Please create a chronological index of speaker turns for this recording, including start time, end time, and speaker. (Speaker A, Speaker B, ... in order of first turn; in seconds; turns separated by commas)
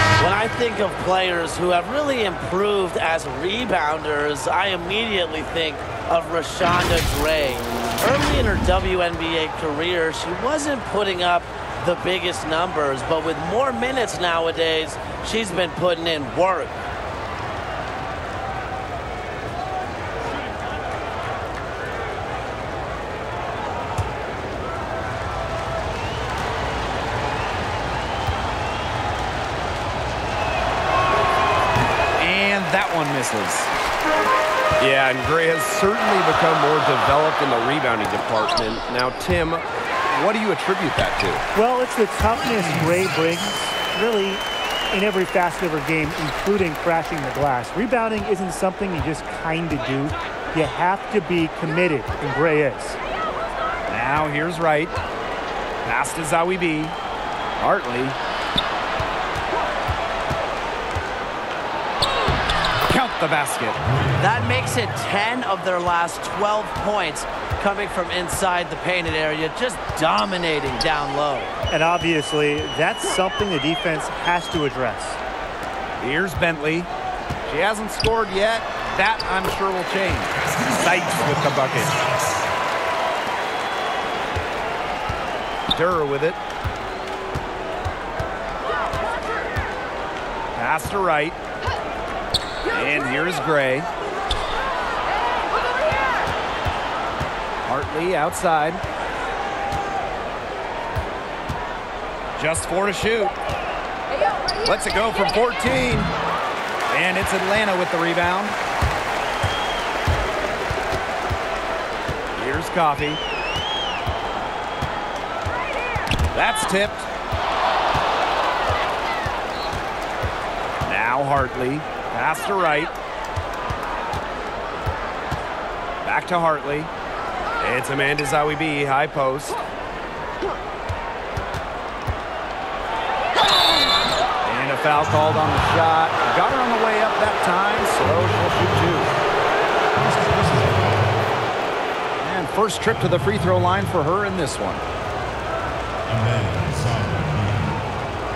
Speaker A: 0.2-16.8, Speaker B: 32.2-33.7, Speaker B: 34.8-41.4, Speaker C: 41.5-53.0, Speaker B: 53.9-55.0, Speaker B: 55.8-57.0, Speaker B: 57.6-58.2, Speaker B: 62.8-63.8, Speaker A: 64.2-71.5, Speaker C: 71.7-75.2, Speaker B: 76.0-76.9, Speaker B: 77.5-82.1, Speaker B: 85.7-86.4, Speaker B: 90.5-91.4, Speaker B: 92.7-93.9, Speaker B: 97.6-98.8, Speaker B: 102.4-103.3, Speaker B: 104.6-106.1, Speaker B: 106.9-108.5, Speaker B: 112.3-113.2, Speaker B: 116.3-117.1, Speaker B: 120.8-122.9, Speaker B: 126.0-126.9, Speaker B: 127.6-129.6, Speaker B: 134.4-139.1, Speaker D: 138.2-138.8, Speaker D: 139.9-141.2, Speaker B: 142.2-144.8, Speaker D: 146.1-147.8